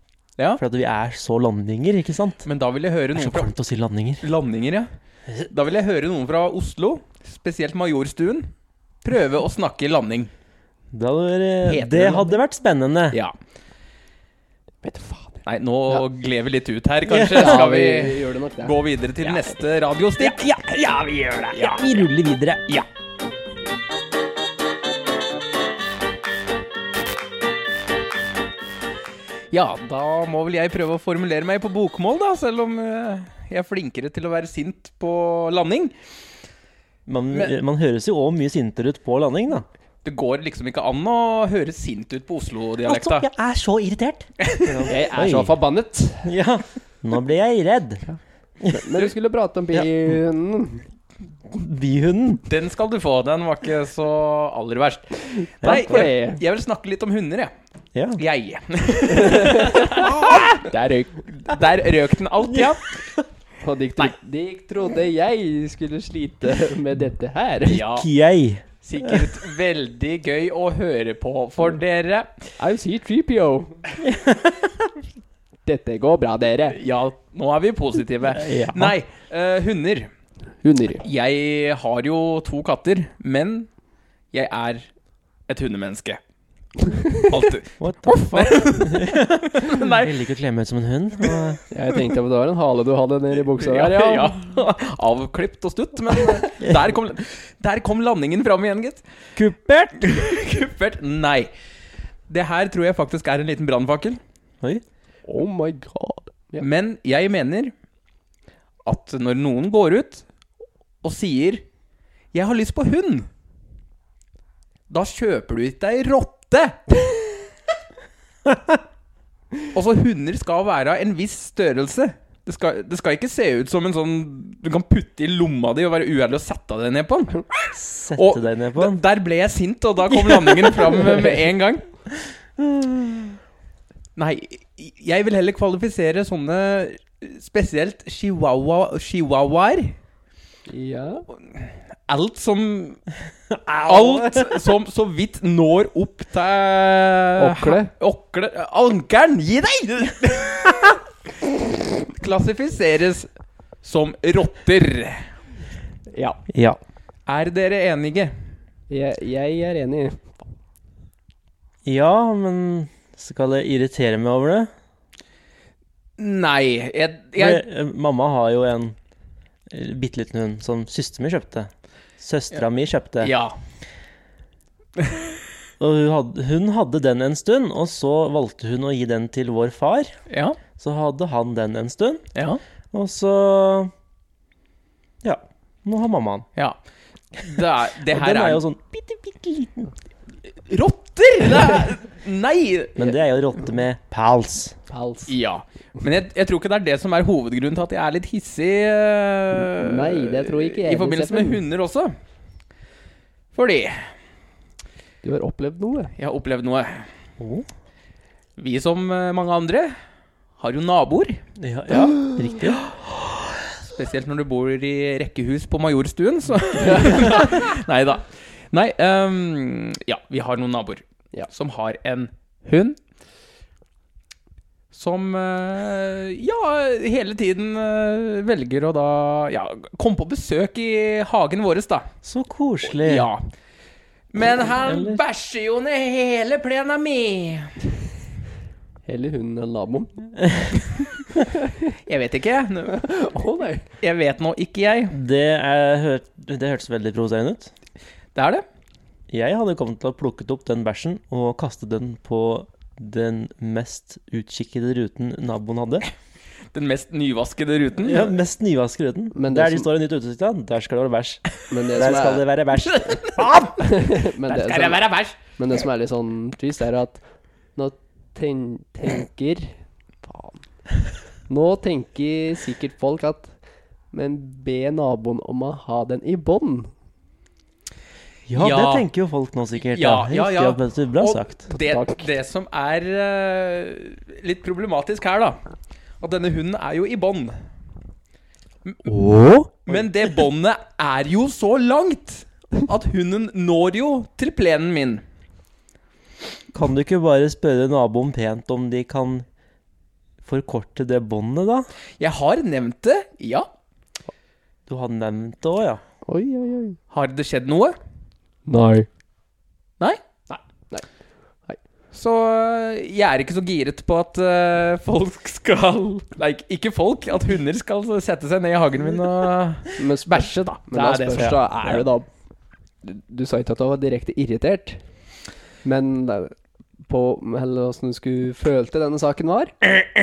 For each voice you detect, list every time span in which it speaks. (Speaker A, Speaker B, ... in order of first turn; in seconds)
Speaker A: 0.6-2.5, 3.1-4.2, 10.9-13.2, 17.1-17.6, 20.2-22.7, 37.1-39.7, 42.9-45.5, 46.2-48.0, 51.5-52.5, 55.6-56.1, 58.0-58.2, 60.0-60.5, 62.5-63.2, 67.9-69.3, 74.0-74.9, 78.2-79.0, 87.8-91.6, 99.4-100.1, 127.7-129.0, 132.2-133.3, 143.5-144.7, 156.5-156.8, 161.8-164.7, 167.4-169.0, 169.7-173.3, 175.8-180.1, 180.8-182.2, 182.9-183.9, 185.2-186.5, 188.1-189.9, 193.0-194.8, 207.4-207.7, 211.6-212.9, 232.2-233.3, 234.7-235.2, 245.1-247.7, 249.3-256.1, 258.0-263.8, 278.5-281.5, 289.1-290.1, 296.7-299.5, 300.4-301.9, 304.9-306.0
Speaker B: 2.5-3.5, 4.2-4.9, 5.5-8.5, 9.0-10.3, 11.7-12.4, 15.5-20.4, 21.5-22.0, 29.5-35.9, 40.0-43.3, 44.4-44.9, 52.5-57.5, 58.2-63.0, 67.7-68.1, 68.8-72.3, 76.7-80.1, 81.0-83.7, 84.3-84.9, 85.5-86.2, 87.1-90.2, 93.5-99.0, 100.0-101.5, 102.3-104.2, 106.6-107.7, 108.8-110.2, 111.0-111.6, 112.3-113.3, 114.9-117.2, 119.7-131.8, 134.2-139.9, 141.4-143.0, 143.8-151.0, 152.0-153.3, 153.8-155.3, 157.3-158.3, 166.2-167.6, 173.2-173.6, 175.0-175.2, 180.3-180.6, 182.3-182.6, 187.3-188.6, 190.5-193.0, 195.3-202.2, 203.5-204.1, 206.2-207.1, 208.6-209.9, 210.6-211.4, 213.8-223.0, 224.9-232.1, 232.9-233.4, 234.3-237.8, 242.1-243.0, 244.0-245.2, 248.3-248.7, 256.7-258.4, 262.8-265.4, 278.5-279.1, 279.9-285.6, 286.2-287.6, 288.9-289.1, 289.9-295.2, 302.2-303.7, 307.1-308.0, 310.0-310.6, 312.1-322.0
Speaker C: 14.8-16.0, 17.3-19.5, 44.9-46.3, 48.6-50.9, 55.6-56.4, 59.1-60.1, 63.6-67.9, 72.6-73.8, 75.7-76.8, 80.6-81.0, 87.0-87.3, 91.7-94.3, 105.3-106.7, 140.7-141.3, 147.4-147.9, 158.9-160.3, 194.9-195.3, 199.8-201.6, 205.2-206.1, 211.9-212.4, 216.8-217.6, 239.1-240.2, 241.4-241.9, 242.9-243.9, 259.3-259.9, 261.7-262.5, 263.8-267.2, 267.8-269.7, 270.2-270.6, 271.5-273.5, 274.1-276.9, 281.7-282.3, 306.3-307.0, 308.7-309.1, 320.0-322.3, 323.0-325.0, 325.8-326.5, 327.1-329.9